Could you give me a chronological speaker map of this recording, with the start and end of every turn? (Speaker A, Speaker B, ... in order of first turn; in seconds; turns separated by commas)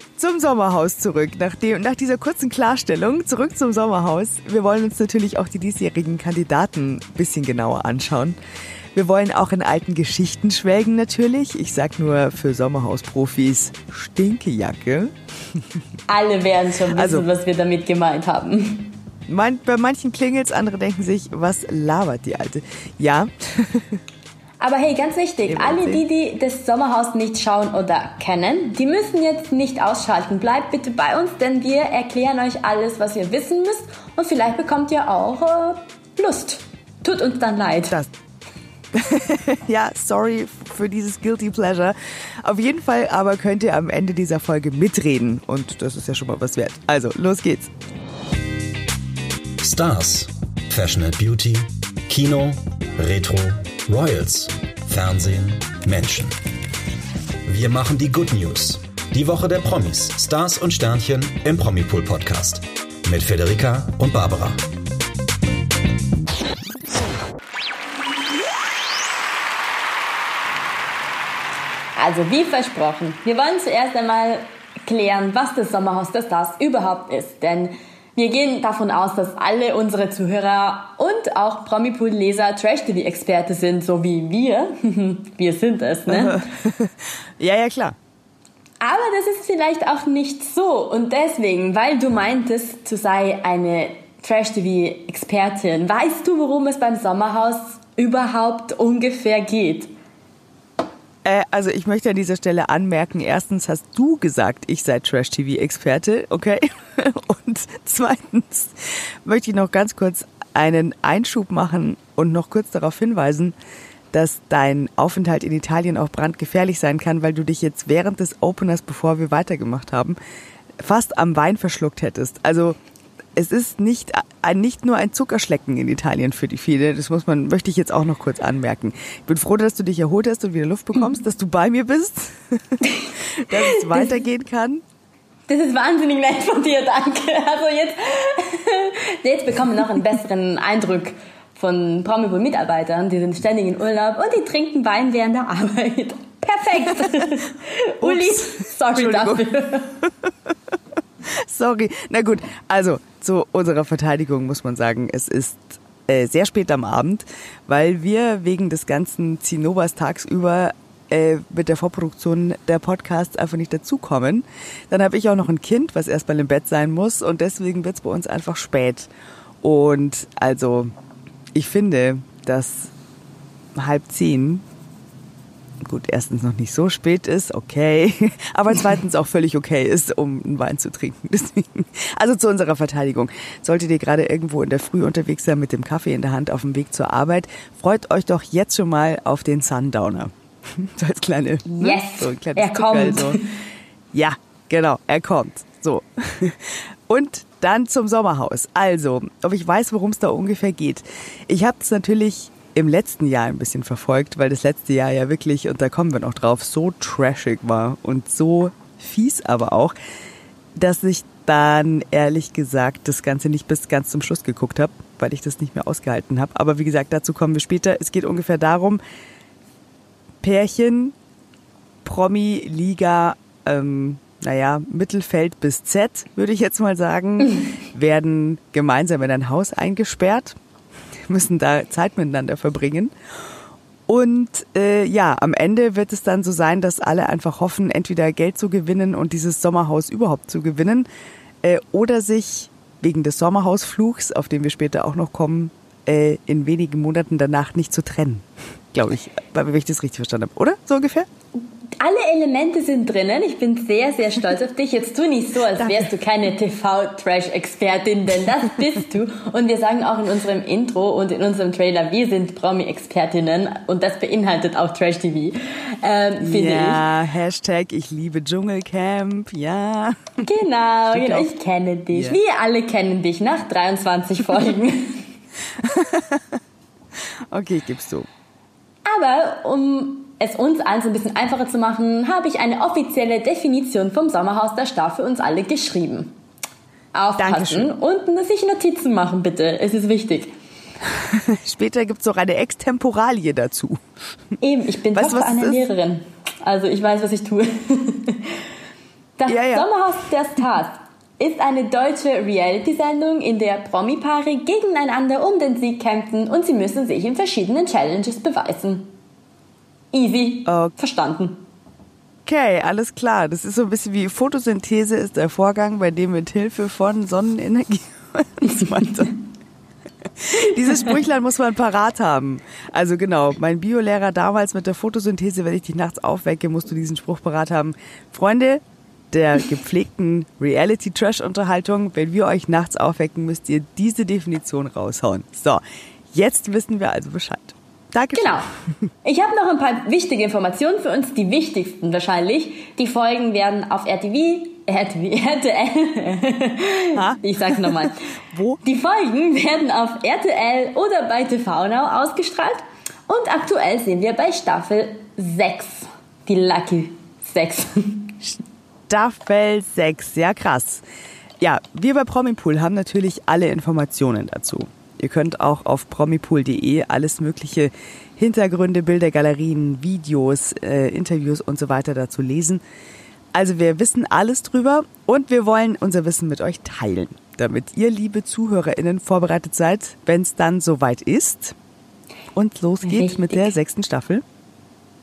Speaker A: 0.2-8.4, Speaker A: 8.9-15.6, Speaker B: 16.1-19.0, Speaker A: 16.9-17.3, Speaker A: 19.3-24.0, Speaker B: 24.6-38.0, Speaker A: 25.5-26.0, Speaker A: 38.9-47.7, Speaker C: 49.6-56.4, Speaker C: 57.5-64.6, Speaker B: 72.0-86.5, Speaker A: 86.1-88.0, Speaker B: 88.8-99.9, Speaker A: 101.2-113.5, Speaker A: 114.1-120.2, Speaker A: 120.8-122.8, Speaker A: 123.4-134.8, Speaker B: 132.9-134.1, Speaker B: 135.5-149.9, Speaker A: 147.0-147.3, Speaker A: 148.0-149.5, Speaker A: 150.0-150.3, Speaker A: 151.3-169.1, Speaker A: 169.6-170.9, Speaker A: 171.6-172.9, Speaker A: 173.8-174.6, Speaker A: 175.8-193.4, Speaker B: 191.7-193.4, Speaker A: 194.1-209.9, Speaker A: 210.8-219.0, Speaker A: 220.4-221.2, Speaker A: 222.1-230.6, Speaker A: 231.3-233.1, Speaker A: 234.1-241.1, Speaker A: 241.6-251.3, Speaker B: 252.0-267.1, Speaker A: 255.8-256.1, Speaker A: 266.4-270.4, Speaker B: 270.4-275.3, Speaker A: 271.1-271.5, Speaker A: 272.1-272.4, Speaker A: 275.8-276.6, Speaker A: 277.5-278.3, Speaker B: 279.1-286.3, Speaker B: 287.1-290.5, Speaker A: 287.4-287.9, Speaker A: 291.1-294.0, Speaker B: 294.6-298.6, Speaker A: 295.1-295.8, Speaker B: 299.4-309.1, Speaker A: 299.5-299.9, Speaker B: 310.1-311.6, Speaker A: 310.7-310.9, Speaker A: 312.5-319.4, Speaker A: 320.4-338.6, Speaker B: 338.4-338.7, Speaker B: 339.2-348.3, Speaker A: 347.1-348.8, Speaker B: 348.8-358.4, Speaker A: 359.1-361.0, Speaker A: 361.6-372.8, Speaker A: 373.5-381.8, Speaker A: 382.5-384.4, Speaker B: 383.0-383.7